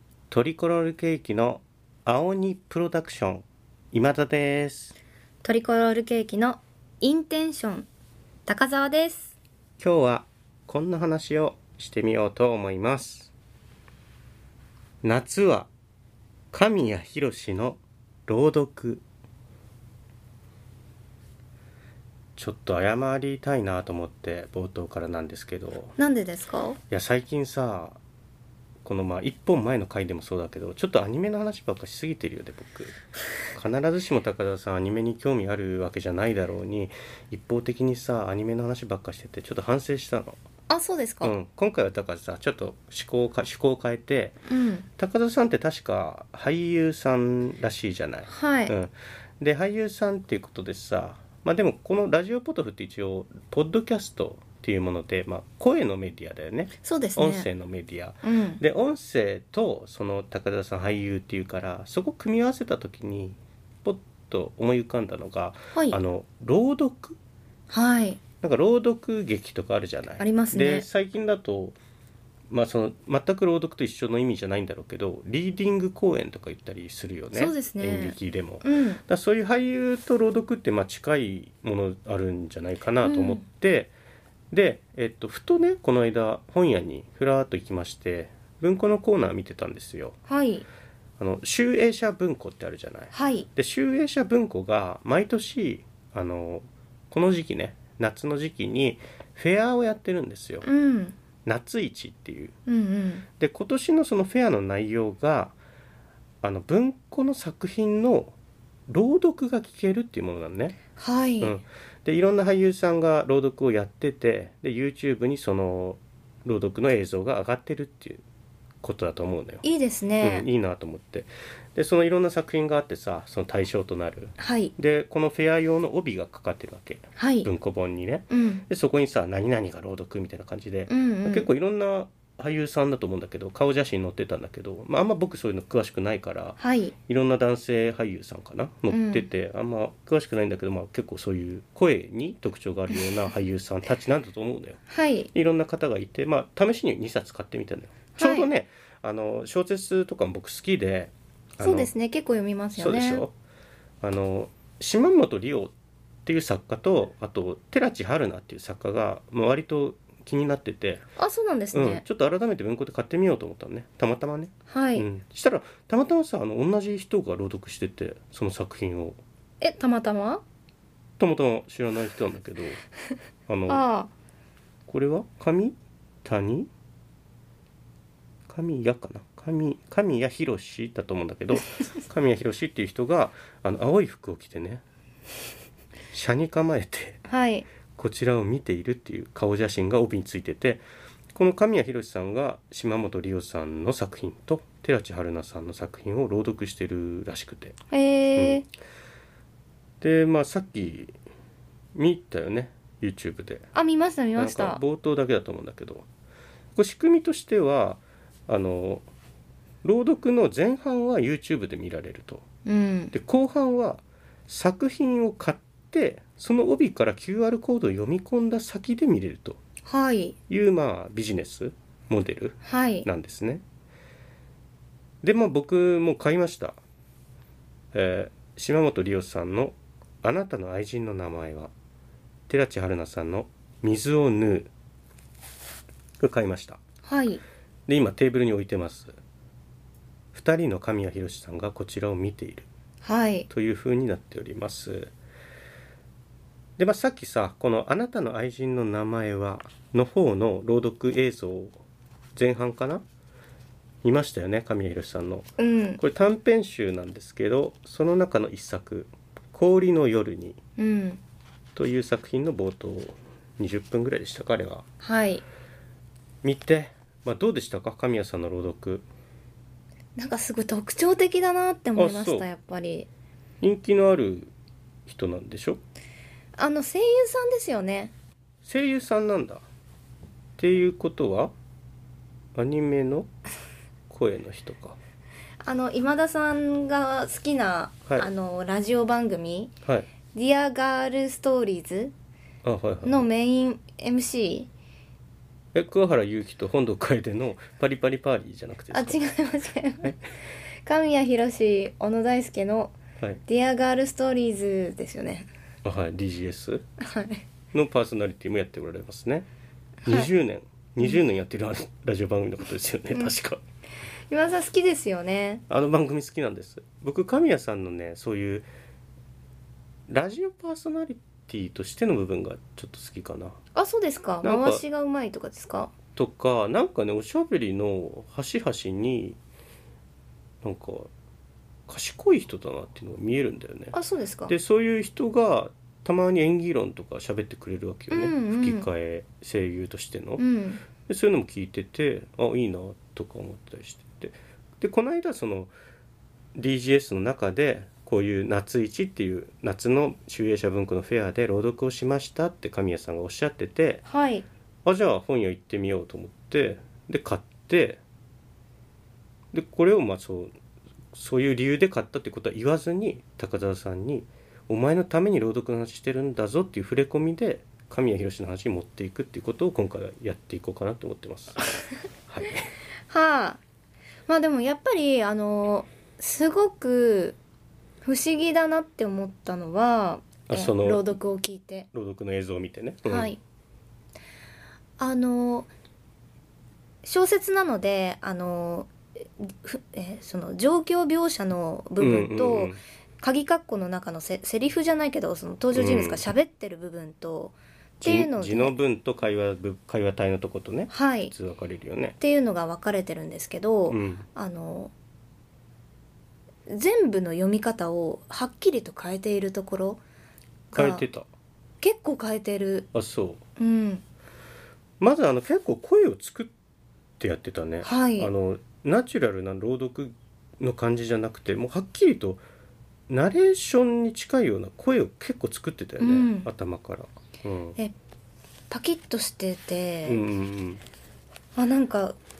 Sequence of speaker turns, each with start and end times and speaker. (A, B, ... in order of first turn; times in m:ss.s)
0:00.3-0:04.9 A
0:05.4-0:07.9 B
0:08.4-0:09.3 B
0:09.8-0:13.3 A
0:15.0-0:15.7 A
0:16.5-0:19.0 A
0:22.4-0:26.0 A
0:26.0-0:26.8 B
0:26.9-0:28.0 A
0:28.8-0:33.0 A
0:33.5-0:40.4 A
0:40.7-0:41.4 B
0:41.2-0:44.4 A
0:44.5-0:44.9 B
0:45.0-1:07.2 A
0:48.3-0:48.7 B
0:56.8-0:57.5 B
0:58.2-0:58.6 B
1:05.7-1:06.0 B
1:07.7-1:08.2 B
1:08.4-1:11.8 A
1:10.2-1:10.8 B
1:12.5-1:23.9 A
1:17.3-1:19.0 B
1:23.0-1:23.4 B
1:24.5-1:30.2 A
1:30.3-1:30.6 B
1:31.2-1:40.6 A
1:33.1-1:33.5 B
1:40.6-1:41.2 B
1:41.4-1:42.5 A
1:42.7-1:43.2 B
1:43.4-1:45.6 A
1:46.4-1:48.3 A
1:48.9-1:50.8 A
1:51.0-1:51.6 B
1:51.4-1:58.2 A
1:58.8-1:59.6 A
1:59.6-2:00.5 B
2:00.2-2:24.8 A
2:04.4-2:04.7 B
2:07.2-2:07.5 B
2:08.3-2:08.6 B
2:10.9-2:11.5 B
2:16.6-2:16.9 B
2:18.9-2:19.2 B
2:24.9-2:25.3 B
2:25.3-2:31.9 A
2:28.2-2:28.5 B
2:31.6-2:33.2 B
2:32.7-2:33.3 A
2:34.0-2:35.7 A
2:36.2-2:41.0 A
2:41.2-2:42.0 B
2:41.7-2:49.2 A
2:44.7-2:45.0 B
2:49.6-2:50.4 B
2:51.2-2:52.8 A
2:53.5-2:53.8 A
2:53.7-2:54.1 B
2:54.9-2:56.7 A
2:58.5-3:04.8 A
3:06.1-3:07.2 A
3:07.3-3:07.7 B
3:07.9-3:10.8 A
3:11.3-3:17.8 A
3:17.9-3:18.6 B
3:18.4-3:18.6 A
3:20.0-3:21.1 A
3:21.9-3:23.7 A
3:23.7-3:24.8 B
3:24.4-3:26.0 A
3:26.8-3:29.0 A
3:29.8-3:32.4 A
3:32.6-3:33.1 B
3:33.1-3:39.6 A
3:39.8-3:40.4 B
3:40.5-3:43.6 A
3:42.6-3:43.1 B
3:45.2-3:46.8 A
3:47.9-3:51.7 A
3:52.5-3:54.7 A
3:56.2-3:56.8 A
3:57.0-3:57.4 B
3:57.9-3:59.2 A
4:00.3-4:02.7 A
4:03.0-4:03.5 B
4:03.5-4:05.1 A
4:06.8-4:11.8 A
4:12.3-4:13.0 A
4:14.0-4:20.6 A
4:15.6-4:16.0 B
4:20.8-4:21.2 B
4:21.8-4:24.8 A
4:25.0-4:25.4 B
4:26.4-4:29.0 A
4:30.2-4:33.1 B
4:32.0-4:32.4 A
4:33.6-4:34.5 A
4:35.0-4:35.8 A
4:36.6-4:38.1 B
4:38.6-4:39.6 A
4:40.6-4:41.5 A
4:42.5-4:43.3 A
4:44.1-4:45.0 A
4:45.6-4:49.7 B
4:50.3-4:52.1 B
4:52.6-4:53.3 A
4:53.0-4:54.7 B
4:55.7-4:59.2 A
4:58.9-5:00.2 B
5:00.8-5:03.0 B
5:03.5-5:05.5 B
5:05.8-5:06.8 A
5:07.0-5:07.4 B
5:07.7-5:09.5 A
5:10.0-5:10.3 B
5:10.0-5:13.6 A
5:14.3-5:15.6 B
5:15.7-5:18.6 A
5:20.1-5:23.6 A
5:23.7-5:25.9 B
5:24.4-5:24.8 A
5:26.2-5:29.4 A
5:30.6-5:31.1 A
5:31.9-5:34.0 A
5:33.9-5:34.5 B
5:34.5-5:40.4 A
5:38.1-5:38.9 B
5:40.4-5:40.8 B
5:41.0-5:45.7 A
5:46.5-5:54.0 A
5:54.0-5:54.4 B
5:54.8-5:58.0 A
5:59.5-6:00.5 A
6:01.1-6:11.7 A
6:12.3-6:12.7 A
6:13.1-6:13.6 B
6:14.3-6:17.4 B
6:18.0-6:21.9 B
6:20.5-6:21.2 A
6:21.9-6:23.3 A
6:23.1-6:23.4 B
6:25.0-6:25.7 B
6:27.0-6:38.7 B
6:32.0-6:32.8 A
6:35.7-6:36.2 A
6:38.0-6:42.2 A
6:40.9-6:41.3 B
6:42.2-6:44.9 B
6:43.9-6:44.2 A
6:46.7-6:50.0 B
6:50.7-6:51.0 B
6:50.7-6:51.3 A
6:51.8-6:52.9 B
6:52.9-6:53.4 A
6:53.6-6:54.0 B
6:55.0-6:56.5 A
6:57.2-7:02.4 A
6:57.8-6:58.3 B
7:03.1-7:07.8 A
7:06.0-7:06.5 B
7:08.7-7:10.2 B
7:10.0-7:10.8 A
7:11.5-7:12.2 B